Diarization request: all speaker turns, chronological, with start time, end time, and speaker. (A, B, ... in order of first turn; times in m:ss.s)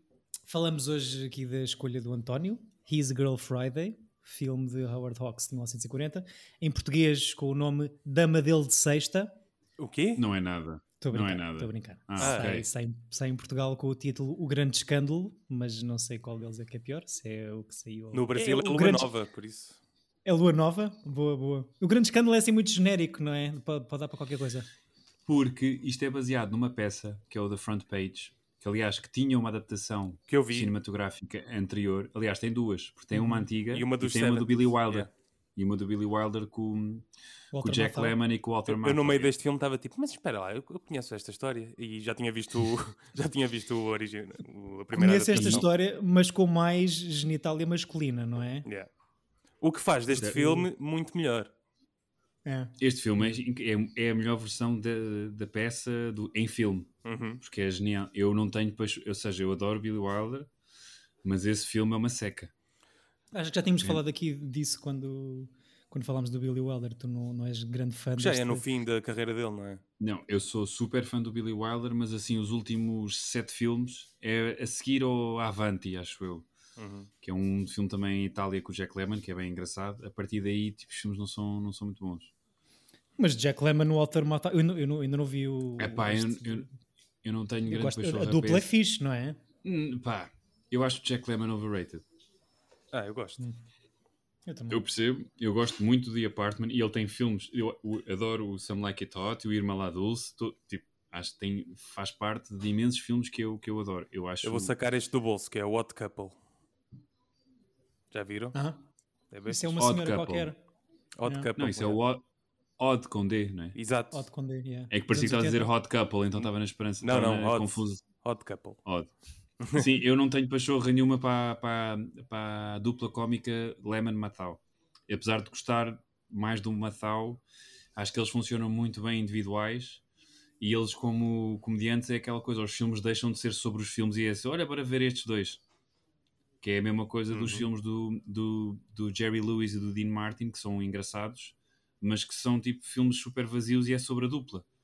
0:00.5-0:09.4 A
0:09.8-0:10.2 B
0:10.2-0:12.7 C
0:11.0-0:19.1 A
0:12.2-0:12.6 B
0:18.1-0:19.8 B
0:20.3-0:24.7 A
0:25.3-0:37.1 C
0:30.3-0:30.7 B
0:33.1-0:33.5 A
0:33.7-0:35.1 B
0:37.5-0:38.2 A
0:37.6-0:39.3 C
0:38.7-0:45.7 B
0:44.9-0:48.7 A
0:45.3-0:45.7 C
0:49.6-0:51.5 B
0:50.1-0:50.7 A
0:52.4-0:52.7 A
0:52.8-1:00.5 C
0:57.0-0:57.4 B
1:01.2-1:02.5 C
1:03.3-1:08.6 A
1:08.2-1:09.8 B
1:10.0-1:16.5 C
1:16.8-1:17.1 B
1:17.2-1:22.3 C
1:23.2-1:26.7 A
1:25.8-1:26.7 C
1:27.2-1:28.7 C
1:27.7-1:29.4 A
1:29.6-1:32.0 C
1:32.9-1:33.4 B
1:34.5-1:34.8 A
1:34.7-1:44.7 C
1:44.4-1:46.4 B
1:48.1-1:48.6 B
1:48.5-1:48.8 A
1:49.3-1:49.8 B
1:49.5-1:50.6 A
1:49.8-1:50.5 C
1:51.2-1:52.0 B
1:51.6-1:52.2 C
1:52.8-1:53.8 C
1:53.8-1:54.2 B
1:54.1-1:55.7 A
1:54.9-1:58.0 C
1:57.0-1:58.8 B
1:58.8-1:59.1 C
1:59.7-2:07.4 C
2:08.0-2:10.0 C
2:10.6-2:15.6 C
2:16.6-2:24.7 C
2:17.3-2:17.6 B